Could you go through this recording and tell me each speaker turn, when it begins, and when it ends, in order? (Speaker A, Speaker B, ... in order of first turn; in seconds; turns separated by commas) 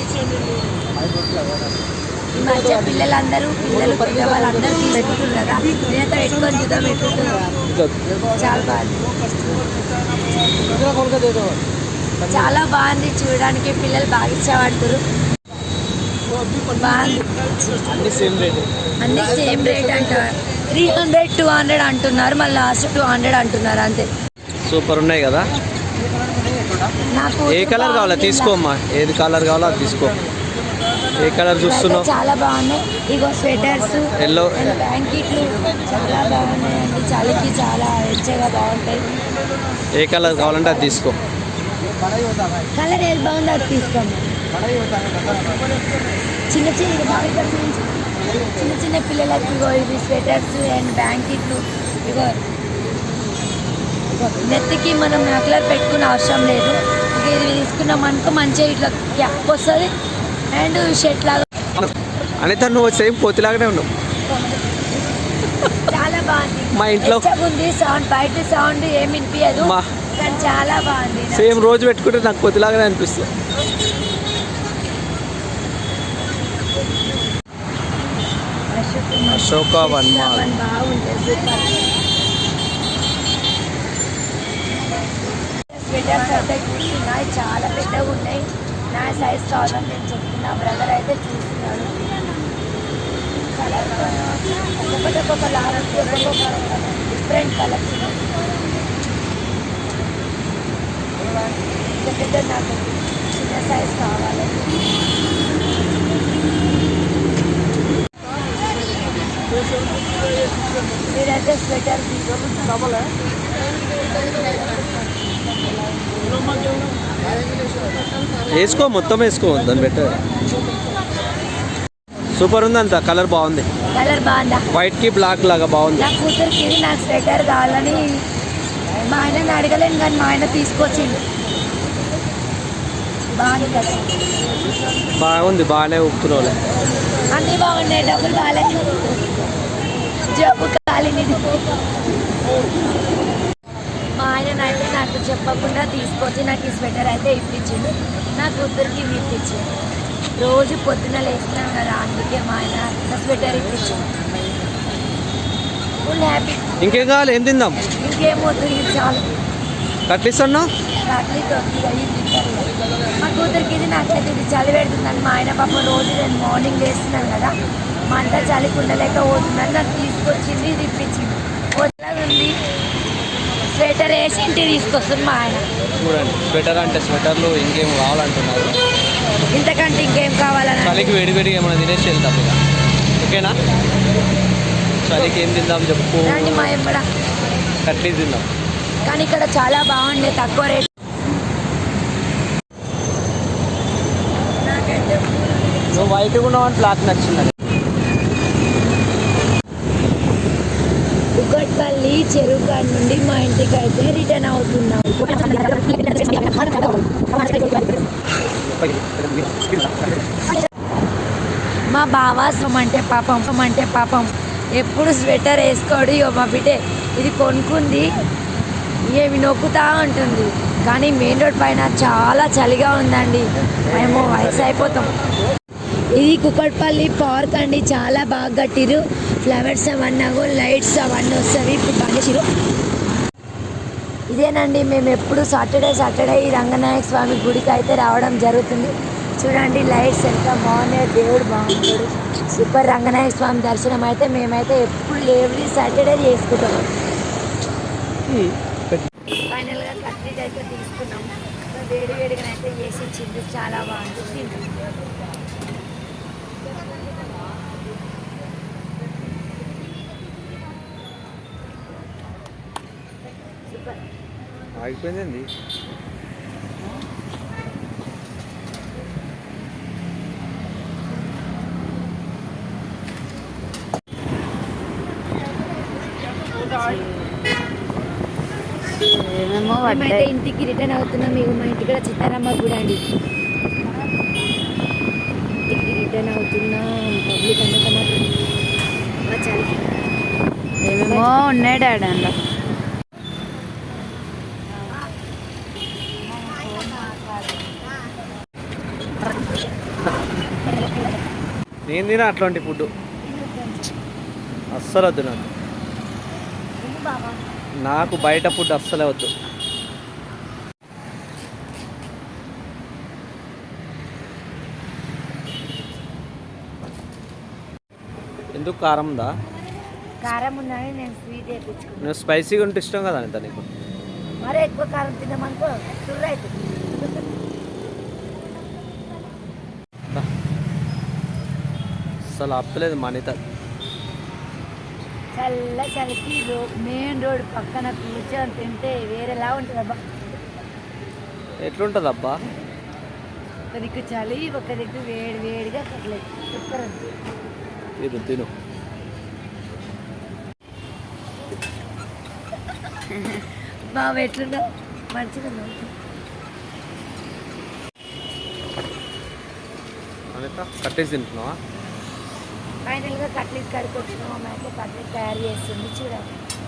Speaker A: 2.3-7.5, Speaker B: 7.7-8.0, Speaker A: 8.3-9.1, Speaker A: 12.2-15.0, Speaker A: 16.7-17.5, Speaker B: 17.9-18.7, Speaker A: 19.0-24.1, Speaker B: 24.6-25.5, Speaker A: 27.1-28.6, Speaker B: 27.5-30.2, Speaker B: 31.1-32.1, Speaker A: 31.6-39.1, Speaker B: 34.2-34.8, Speaker B: 39.9-41.2, Speaker A: 42.7-44.3, Speaker A: 46.5-52.4, Speaker A: 54.2-59.9, Speaker A: 60.5-61.5, Speaker B: 61.8-63.9, Speaker A: 64.2-64.8, Speaker A: 65.8-71.7, Speaker B: 66.7-67.3, Speaker B: 69.5-69.8, Speaker B: 71.3-73.3, Speaker A: 78.7-81.8, Speaker B: 79.3-80.5, Speaker A: 85.7-92.0, Speaker A: 93.5-98.2, Speaker A: 102.0-104.7, Speaker A: 111.1-112.8, Speaker A: 116.0-116.6, Speaker B: 118.5-120.2, Speaker B: 122.3-123.7, Speaker A: 123.9-124.6, Speaker B: 124.7-126.1, Speaker A: 126.0-128.1, Speaker A: 129.1-131.2, Speaker A: 133.3-134.2, Speaker B: 135.2-136.6, Speaker A: 137.3-139.1, Speaker A: 140.2-141.7, Speaker A: 144.1-149.7, Speaker A: 150.4-154.2, Speaker A: 156.0-156.9, Speaker B: 156.8-157.8, Speaker A: 157.9-159.2, Speaker B: 160.1-160.7, Speaker A: 161.0-167.5, Speaker A: 168.1-172.5, Speaker A: 173.7-175.7, Speaker B: 176.0-178.8, Speaker A: 179.5-181.2, Speaker B: 180.8-182.6, Speaker B: 183.2-183.6, Speaker B: 185.0-186.8, Speaker A: 186.2-187.1, Speaker B: 187.8-188.5, Speaker A: 189.0-190.9, Speaker A: 194.5-196.1, Speaker B: 195.9-197.5, Speaker A: 201.3-207.9, Speaker B: 208.6-210.2, Speaker A: 211.9-218.1, Speaker A: 219.1-225.1, Speaker A: 226.1-232.5, Speaker A: 234.3-246.9, Speaker B: 248.2-249.1, Speaker A: 249.5-254.7, Speaker A: 263.7-264.0, Speaker B: 264.8-265.5, Speaker C: 276.5-277.3, Speaker C: 279.0-280.3, Speaker A: 279.8-283.0, Speaker A: 285.6-288.3, Speaker A: 289.2-289.8, Speaker C: 290.8-292.3, Speaker A: 291.1-291.4, Speaker A: 296.3-297.6, Speaker B: 301.9-302.9, Speaker A: 303.2-303.9, Speaker B: 304.7-305.5, Speaker A: 306.8-307.4, Speaker B: 307.8-309.3, Speaker B: 318.5-319.3, Speaker A: 320.2-322.1, Speaker B: 322.0-323.7, Speaker A: 324.4-327.2, Speaker B: 332.3-333.4, Speaker A: 335.4-340.0, Speaker B: 341.6-342.4, Speaker A: 343.7-347.1, Speaker B: 348.0-348.5, Speaker A: 353.8-355.9, Speaker B: 360.3-361.6, Speaker A: 362.8-366.3